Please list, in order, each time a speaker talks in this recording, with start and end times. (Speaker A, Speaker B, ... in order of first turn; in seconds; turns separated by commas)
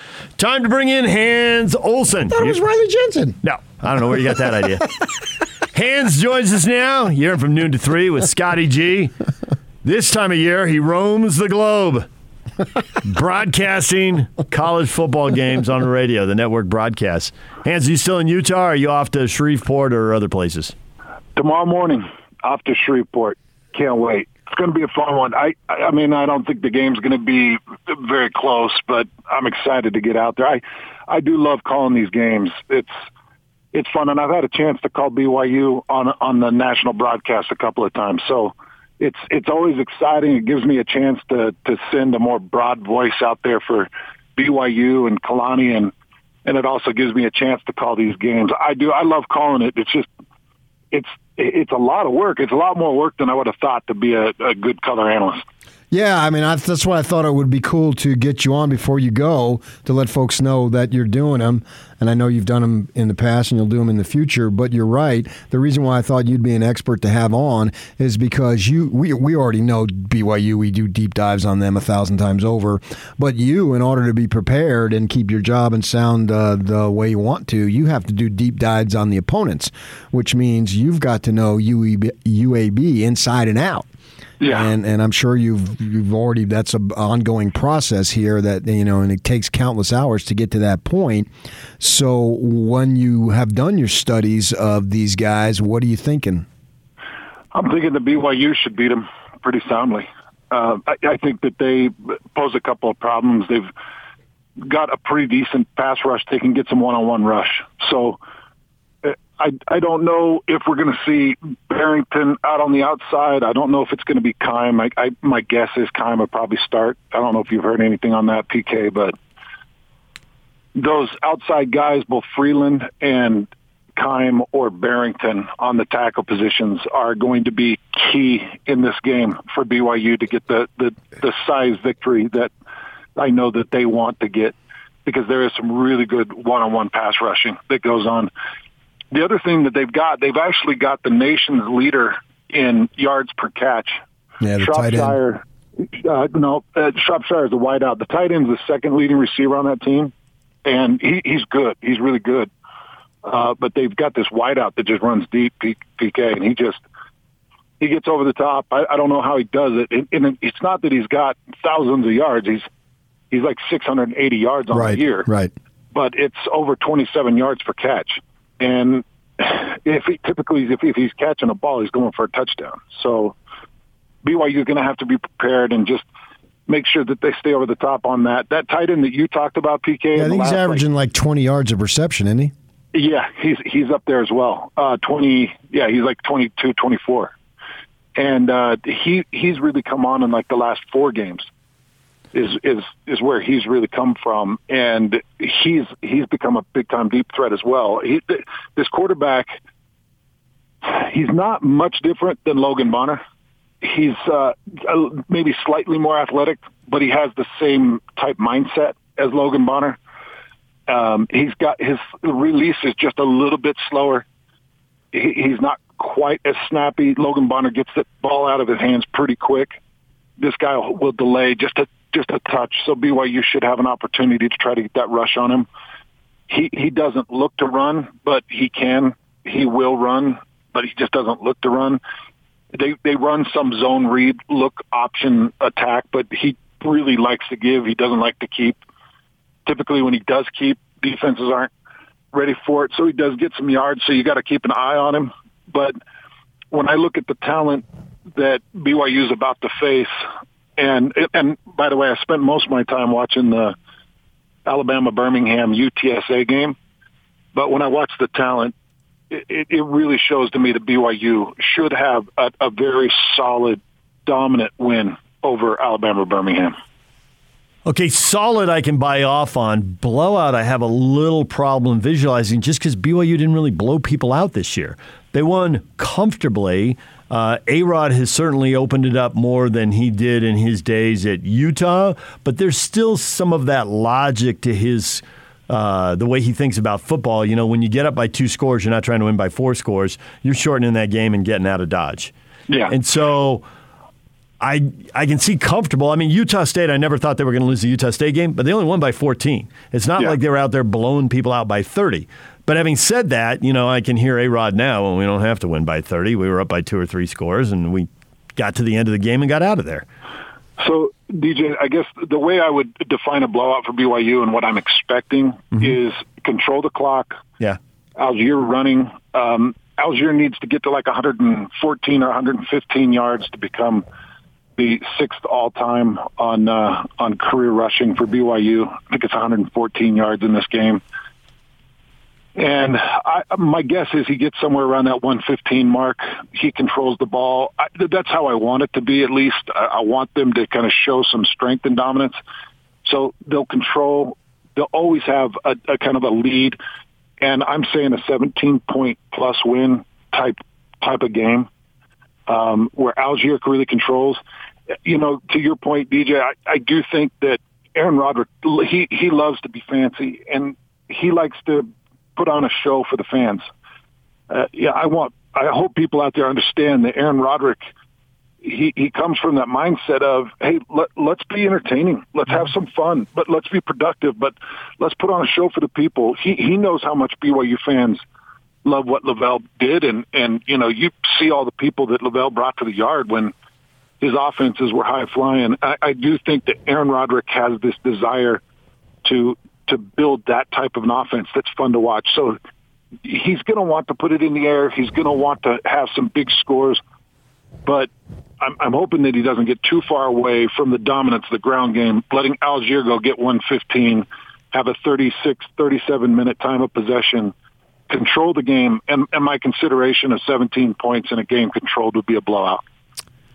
Speaker A: 0.4-2.6, Speaker B: 2.3-3.4, Speaker A: 3.4-4.9, Speaker A: 5.7-9.1, Speaker A: 9.8-12.1, Speaker A: 13.0-20.8, Speaker C: 21.4-32.9, Speaker C: 33.7-45.9, Speaker C: 46.5-50.1, Speaker C: 50.9-55.4, Speaker B: 55.9-83.9, Speaker C: 84.4-84.7, Speaker B: 84.5-91.3, Speaker B: 91.8-96.5, Speaker C: 97.5-103.7, Speaker C: 104.6-108.2, Speaker C: 109.0-119.1, Speaker C: 120.8-132.5, Speaker C: 133.2-138.3, Speaker C: 139.1-144.0, Speaker B: 144.4-145.2, Speaker C: 144.6-150.1, Speaker C: 150.7-152.5, Speaker C: 153.2-156.8, Speaker C: 157.8-162.7, Speaker C: 163.3-165.3, Speaker B: 164.7-165.5, Speaker C: 165.9-173.3, Speaker C: 174.2-176.0, Speaker C: 176.7-180.8, Speaker B: 180.2-182.5, Speaker C: 182.9-187.3, Speaker C: 188.2-191.5, Speaker C: 192.3-199.5, Speaker C: 200.8-203.2, Speaker C: 203.8-210.0, Speaker C: 210.9-214.2, Speaker C: 215.1-219.8, Speaker C: 220.4-225.7, Speaker C: 226.5-232.0, Speaker C: 232.7-238.8, Speaker C: 239.7-241.7, Speaker C: 242.3-246.0, Speaker C: 246.7-250.2, Speaker C: 250.8-253.8, Speaker C: 254.7-256.8, Speaker C: 257.5-258.7, Speaker C: 259.3-266.8, Speaker A: 267.9-292.3, Speaker C: 292.7-292.9, Speaker A: 292.9-293.7, Speaker A: 294.6-310.1, Speaker C: 310.8-317.4, Speaker C: 318.2-324.1, Speaker C: 324.8-331.0, Speaker C: 332.6-342.4, Speaker C: 343.1-346.8, Speaker C: 347.4-351.7, Speaker C: 352.5-354.4, Speaker C: 355.1-363.7, Speaker C: 364.5-367.9, Speaker C: 368.6-378.2, Speaker C: 378.8-383.5, Speaker C: 384.2-388.6, Speaker C: 389.2-392.6, Speaker C: 393.2-397.0, Speaker C: 398.6-407.5, Speaker C: 408.1-412.8